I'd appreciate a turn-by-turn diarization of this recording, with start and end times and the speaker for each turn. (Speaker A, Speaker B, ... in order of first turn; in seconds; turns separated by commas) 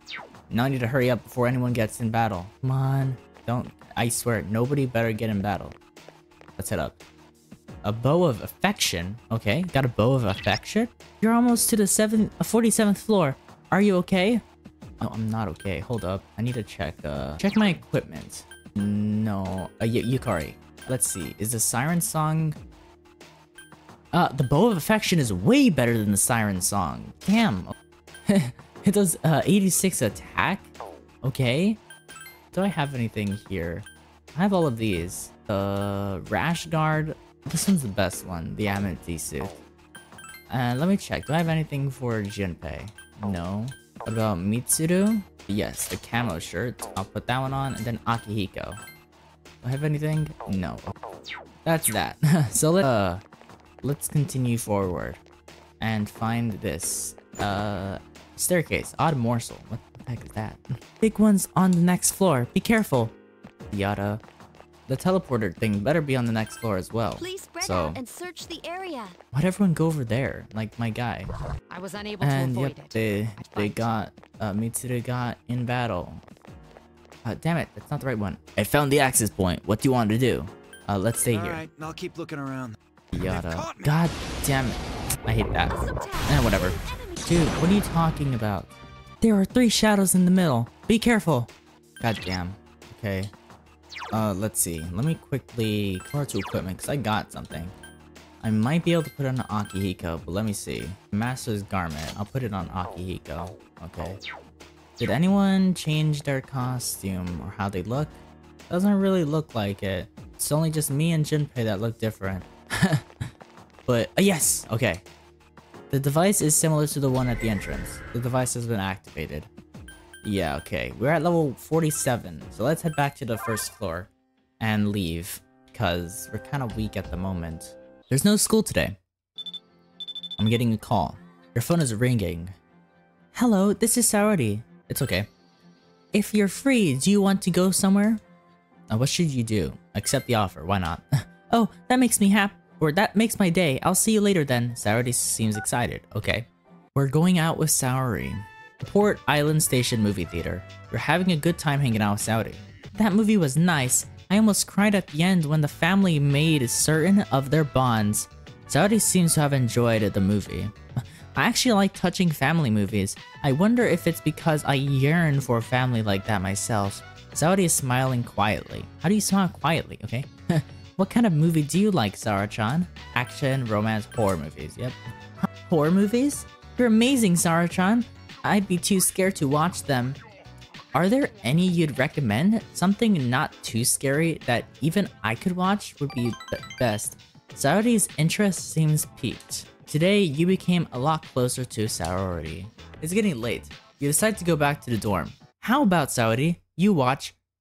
Speaker A: 0.5-5.8, Speaker A: 6.6-7.0, Speaker A: 7.8-14.4, Speaker A: 15.0-22.6, Speaker A: 24.1-27.7, Speaker A: 28.3-30.7, Speaker A: 31.2-31.8, Speaker A: 32.5-39.6, Speaker A: 40.5-48.8, Speaker A: 49.6-50.9, Speaker A: 51.6-53.2, Speaker A: 53.8-55.2, Speaker A: 55.8-63.1, Speaker A: 63.7-64.2, Speaker A: 64.9-68.0, Speaker B: 67.2-69.2, Speaker A: 69.3-71.3, Speaker C: 71.7-73.9, Speaker A: 72.2-76.2, Speaker A: 77.2-81.6, Speaker D: 81.3-84.0, Speaker A: 83.1-93.3, Speaker B: 85.7-87.7, Speaker A: 94.1-97.7, Speaker A: 98.4-104.2, Speaker A: 105.0-113.3, Speaker A: 113.9-115.0, Speaker A: 115.9-119.5, Speaker A: 120.2-129.0, Speaker A: 130.4-132.5, Speaker A: 133.3-135.3, Speaker A: 136.1-138.2, Speaker A: 138.9-160.7, Speaker A: 161.4-180.2, Speaker A: 180.9-197.3